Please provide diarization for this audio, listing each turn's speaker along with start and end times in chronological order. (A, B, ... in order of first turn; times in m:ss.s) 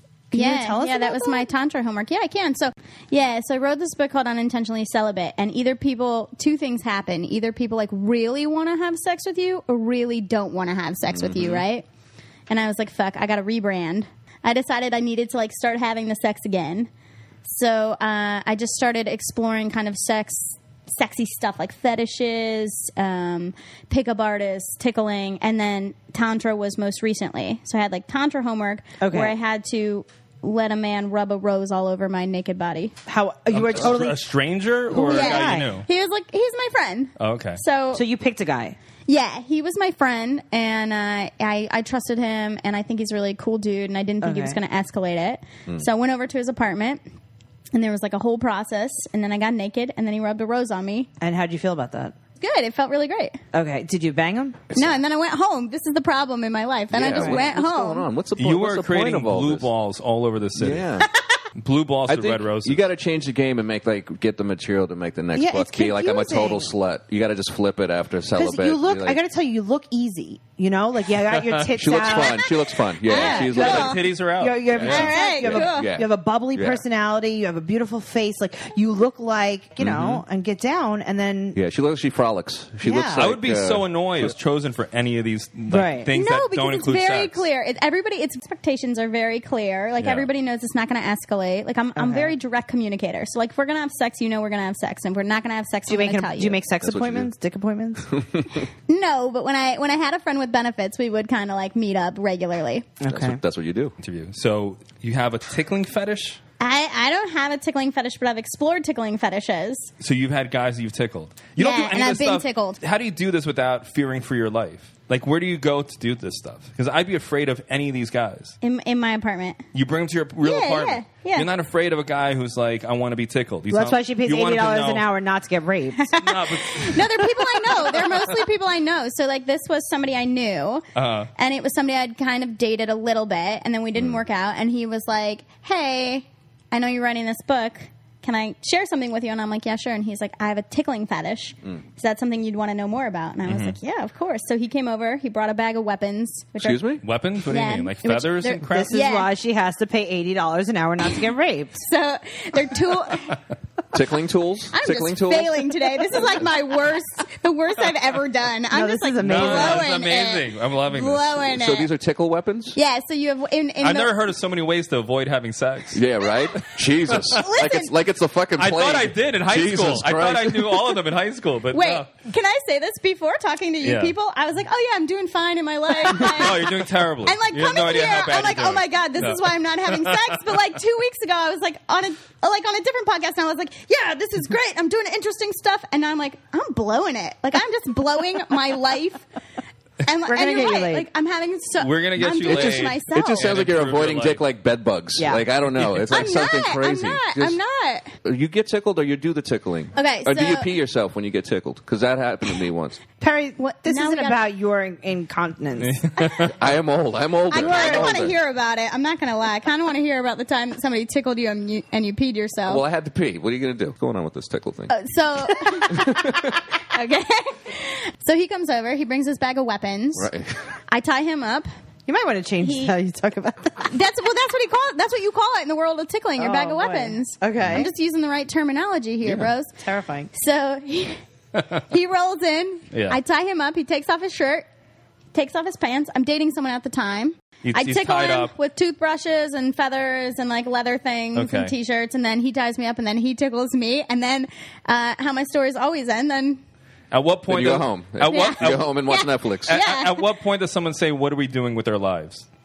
0:00.3-0:01.5 A
0:00.3-0:11.8 B
0:11.1-0:11.6 C
0:12.5-0:16.9 B
0:17.4-0:32.9 B
0:29.0-0:29.4 A
0:33.1-0:34.2 A
0:33.5-0:35.8 D
0:34.9-0:35.7 A
0:35.0-0:38.0 B
0:37.2-0:37.6 D
0:37.9-0:38.8 A
0:39.1-0:47.0 B
0:44.2-0:44.6 A
0:47.7-0:51.1 B
0:51.2-0:52.1 A
0:52.4-0:53.4 B
0:53.5-0:54.7 A
0:54.7-0:55.0 C
0:54.7-0:58.1 B
0:56.9-0:59.7 C
0:57.1-0:57.4 A
0:58.4-1:00.9 D
1:00.6-1:01.1 C
1:01.6-1:02.8 D
1:02.1-1:09.2 C
1:05.3-1:06.7 A
1:08.3-1:12.5 A
1:11.3-1:11.7 D
1:11.8-1:14.0 C
1:13.0-1:14.0 B
1:13.0-1:21.6 A
1:13.2-1:14.7 D
1:14.7-1:16.8 C
1:14.7-1:15.9 B
1:19.8-1:20.2 C
1:21.5-1:24.3 C
1:22.8-1:23.3 A
1:23.2-1:27.4 D
1:25.7-1:26.1 A
1:26.1-1:36.6 B
1:30.0-1:30.3 D
1:31.9-1:32.3 A
1:35.9-1:38.1 A
1:36.8-1:37.3 C
1:38.1-1:38.7 C
1:38.9-1:42.9 B
1:43.0-1:43.4 A
1:43.1-1:43.9 C
1:44.0-1:46.4 D
1:46.6-1:49.9 B
1:50.0-1:58.5 D
1:51.6-1:52.8 B
1:58.6-1:59.6 B
1:59.7-2:05.0 D
2:00.4-2:01.5 B
2:03.7-2:06.1 A
2:06.0-2:10.8 B
2:06.2-2:07.1 D
2:10.9-2:11.3 D
2:11.4-2:29.3 B
2:23.4-2:23.7 D
2:26.6-2:27.0 C
2:27.0-2:28.9 D
2:28.5-2:31.8 A
2:31.8-2:33.4 B
2:33.9-2:36.3 C
2:34.7-2:41.9 B
2:38.7-2:39.9 A
2:39.2-2:41.4 D
2:41.5-2:42.8 C
2:42.7-2:44.1 B
2:43.8-2:46.0 D
2:45.9-2:51.0 C
2:47.1-2:47.4 D
2:47.3-2:47.9 B
2:48.6-2:52.1 D
2:51.7-3:09.2 B
2:53.8-2:54.1 D
2:56.1-3:00.4 D
3:10.0-3:13.5 B
3:10.2-3:11.1 A
3:11.8-3:14.4 D
3:12.3-3:17.6 C
3:15.2-3:15.4 A
3:16.1-3:18.1 B
3:18.2-3:23.0 C
3:19.9-3:20.7 B
3:23.2-3:26.0 A
3:23.6-3:24.4 B
3:25.8-3:26.5 D
3:26.6-3:28.4 C
3:27.5-3:32.8 B
3:27.5-3:28.2 A
3:32.7-3:34.9 C
3:34.9-3:40.3 B
3:35.9-3:36.6 C
3:40.2-3:40.6 C
3:40.9-3:41.7 B
3:42.1-3:43.9 A
3:42.6-3:42.9 B
3:43.8-3:49.7 B
3:46.4-3:47.9 A
3:49.8-3:50.3 A
3:50.3-3:51.2 B
3:51.7-3:54.6 B
3:52.9-3:53.2 D
3:55.3-4:06.6 B
3:57.6-3:58.5 D
4:01.3-4:01.7 D
4:07.1-4:08.9 D
4:07.5-4:09.8 C
4:08.2-4:10.2 B
4:09.7-4:12.4 D